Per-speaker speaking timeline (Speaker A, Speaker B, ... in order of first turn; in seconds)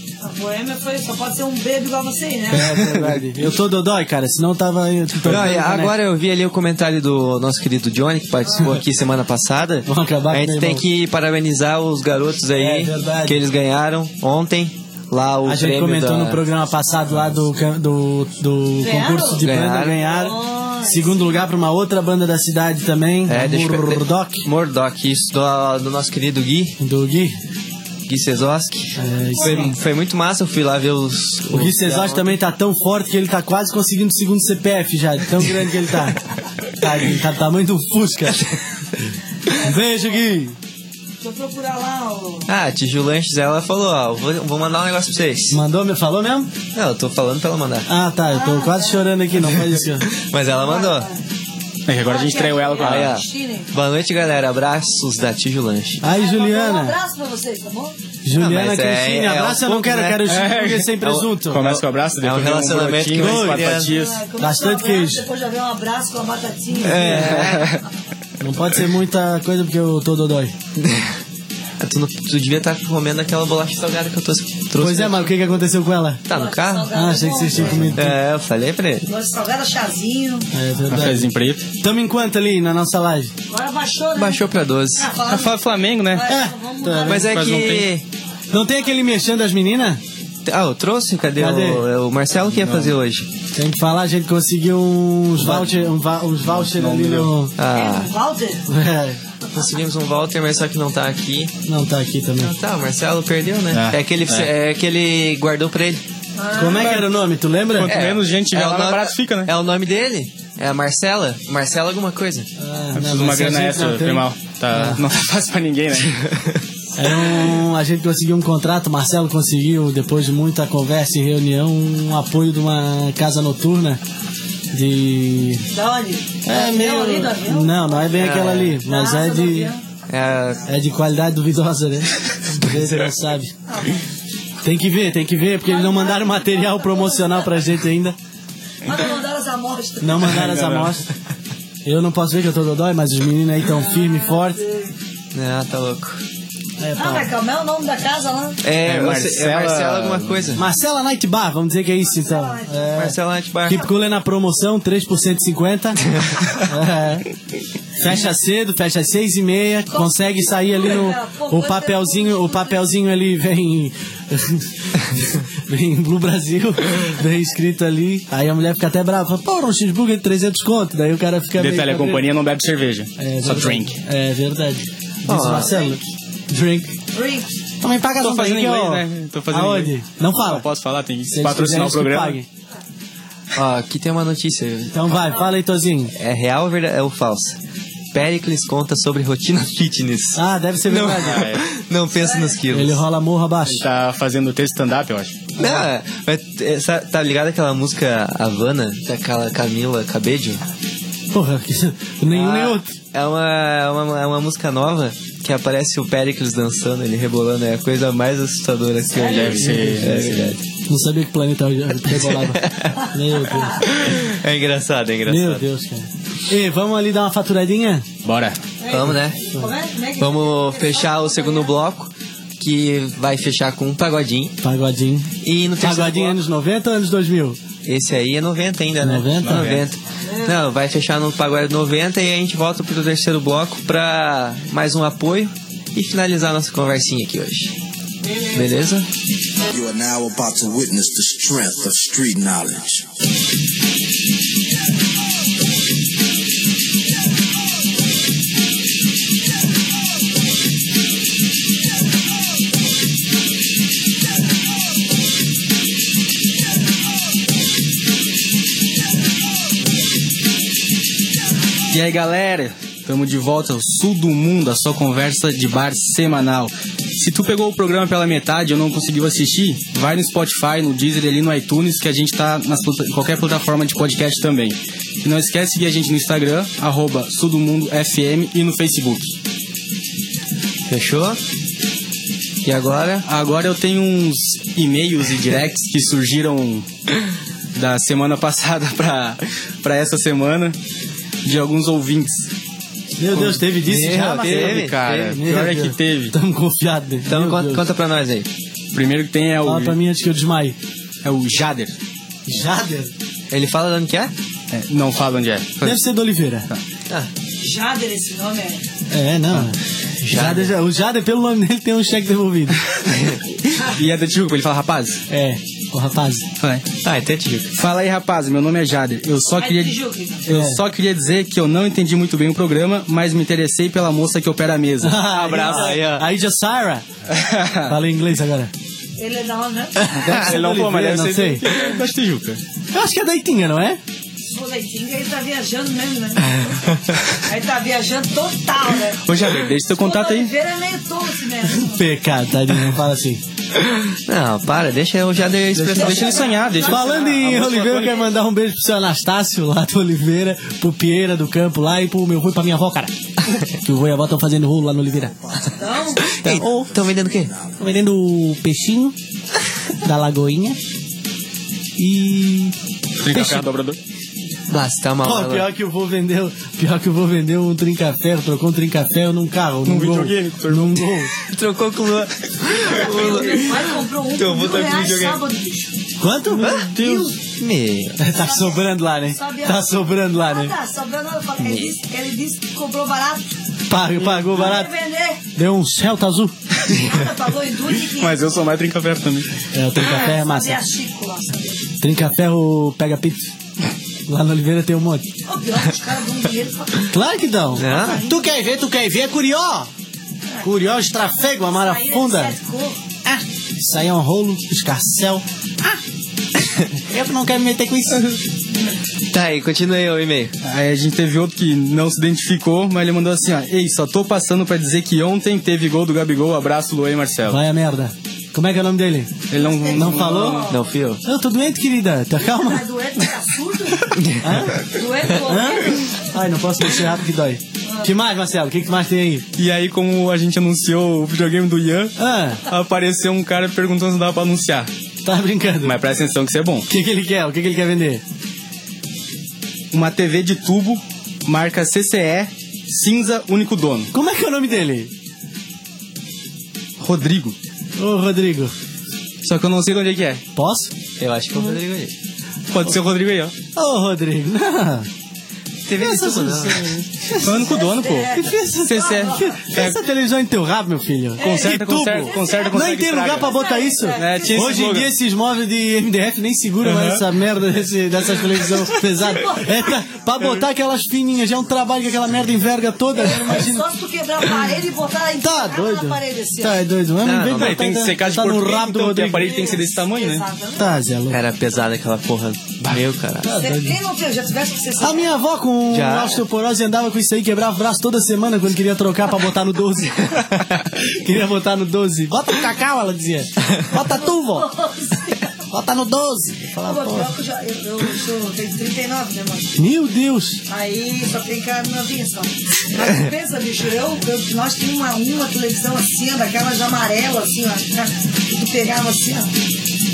Speaker A: 0.2-2.9, 18.8-19.4, 20.0-21.4, 29.4-29.7, 39.6-40.0, 41.2-42.5, 48.3-49.1, 50.5-51.2, 52.0-53.7, 56.1-58.0, 63.9-67.4, 76.3-77.9, 79.1-80.5, 83.5-85.6, 86.1-87.4, 97.7-98.7, 106.4-107.0, 125.7-128.1, 128.8-129.8, 133.7-134.1, 135.6-137.6, 138.8-140.4, 143.8-144.9, 147.0-148.6, 152.0-153.1, 159.9-162.8, 175.5-176.0, 177.1-177.5, 192.2-192.6, 209.2-209.6, 218.8-221.8, 230.2-230.6, 238.2-238.8, 307.6-308.9, 319.6-320.5, 329.2-330.0, 334.4-336.8, 337.4-339.2, 340.0-342.1, 345.9-347.4, 355.8-356.3, 372.8-375.9, 377.0-377.3, 378.4-383.6, 384.5-385.4, 386.9-388.4, 390.0-391.8, 395.4-397.1, 397.7-398.9, 401.7-403.0, 419.5-420.8, 422.4-424.2, 424.8-426.2, 427.8-428.1, 458.0-458.4, 459.1-459.5, 461.4-462.7, 463.4-464.8, 469.1-469.8, 473.1-476.8, 479.3-480.9, 483.5-485.3, 493.9-495.6, 496.8-499.8, 500.7-509.5
Speaker B: 2.5-6.0, 9.9-10.8, 12.5-13.4, 15.4-24.5, 26.8-27.4, 29.0-29.8, 31.5-36.2, 36.8-38.5, 39.5-40.6, 45.5-46.5, 47.9-50.1, 56.0-57.0, 58.2-61.7, 63.1-63.8, 64.4-65.2, 66.9-67.4, 68.4-70.5, 74.8-76.2, 76.9-78.2, 80.5-83.3, 86.2-87.3, 88.5-90.0, 91.4-91.9, 93.5-97.5, 98.7-99.2, 101.7-102.5, 106.5-108.0, 112.6-115.0, 117.0-124.0, 124.7-125.7, 126.5-129.7, 130.7-133.5, 134.6-138.2, 140.0-141.1, 141.8-144.6, 146.8-147.3, 150.6-157.3, 158.0-172.3, 173.2-177.0, 177.8-180.7, 181.3-182.5, 184.9-186.1, 190.3-191.5, 192.7-193.8, 195.6-195.9, 201.3-202.9, 209.5-213.9, 215.3-218.1, 224.6-227.6, 229.0-229.7, 293.2-297.9, 299.6-300.8, 302.5-303.1, 305.8-306.7, 309.1-312.8, 315.3-316.5, 320.5-320.8, 325.0-327.1, 327.9-328.7, 330.0-331.7, 332.9-334.0, 341.7-343.4, 346.9-353.1, 353.8-355.3, 356.4-356.9, 357.8-359.1, 360.0-360.8, 362.0-362.8, 363.3-363.7, 365.2-371.4, 376.2-377.0, 378.2-380.8, 383.9-384.9, 385.5-386.5, 389.7-390.8, 392.0-393.5, 394.3-395.3, 397.1-399.9, 400.6-402.6, 403.2-406.0, 407.0-408.4, 417.5-422.9, 424.4-429.4, 432.2-432.7, 435.2-436.0, 436.9-438.2, 444.1-445.1, 448.0-448.7, 450.6-450.9, 453.8-455.1, 455.9-457.7, 458.3-473.9, 475.4-479.6, 480.8-481.4, 483.4-484.0, 485.0-494.7, 495.7-497.3, 499.8-500.6
Speaker C: 2.9-3.5, 5.2-16.4, 19.4-20.0, 23.3-26.8, 28.1-32.3, 42.5-45.6, 46.7-47.9, 50.1-51.1, 52.8-56.0, 58.4-60.3, 61.0-63.9, 66.8-67.8, 70.8-71.1, 71.8-75.3, 76.3-76.9, 77.6-79.1, 84.2-85.1, 87.1-88.0, 90.5-93.3, 95.4-95.7, 97.6-98.1, 99.5-101.5, 102.4-106.0, 107.8-112.5, 116.0-116.6, 128.1-128.8, 130.1-130.6, 145.3-146.2, 148.6-150.6, 153.0-153.9, 156.1-156.5, 175.3-175.8, 183.5-185.4, 186.2-187.6, 188.1-193.0, 195.6-200.6, 202.3-210.6, 212.1-215.6, 218.9-219.4, 220.2-224.6, 225.4-226.4, 227.8-237.7, 238.5-239.1, 280.9-281.4, 282.6-283.2, 293.8-295.4, 297.3-298.5, 303.5-304.3, 310.2-310.7, 313.1-313.4, 317.0-317.8, 325.5-326.3, 330.3-330.5, 344.3-346.6, 356.2-357.5, 364.7-365.7, 371.4-375.4, 376.6-378.2, 381.6-381.9, 397.8-398.2, 409.3-410.5, 420.6-421.2, 424.1-424.7, 451.2-452.1, 455.9-457.0, 477.2-477.9, 481.3-483.6, 485.9-486.4
Speaker D: 51.9-53.1, 60.3-64.2, 67.1-67.8, 80.9-81.7, 85.3-86.3, 87.1-87.9, 92.5-93.0, 96.4-97.3, 103.7-104.5, 106.6-107.1, 107.7-109.5, 112.9-116.2, 140.2-141.0, 148.8-150.6, 171.6-173.9, 178.2-182.4, 191.2-191.6, 193.7-195.4, 209.2-210.3, 218.2-218.6, 229.4-229.8, 261.9-279.4, 283.2-286.9, 287.8-290.8, 291.4-292.5, 293.3-296.4, 298.9-300.0, 301.2-301.9, 304.7-305.8, 313.7-315.2, 317.8-326.0, 327.3-327.9, 330.1-332.6, 339.2-340.5, 345.7-348.2, 363.2-364.0, 369.9-371.1, 376.9-377.3, 388.1-389.5, 410.6-417.6, 419.5-420.7, 429.6-434.9, 435.8-436.9, 439.9-444.1, 447.0-447.6, 449.4-450.4, 452.7-453.5, 457.4-460.0, 461.4-463.6, 464.1-465.1, 466.8-467.2, 477.5-480.4
Speaker E: 239.7-243.1, 355.4-357.8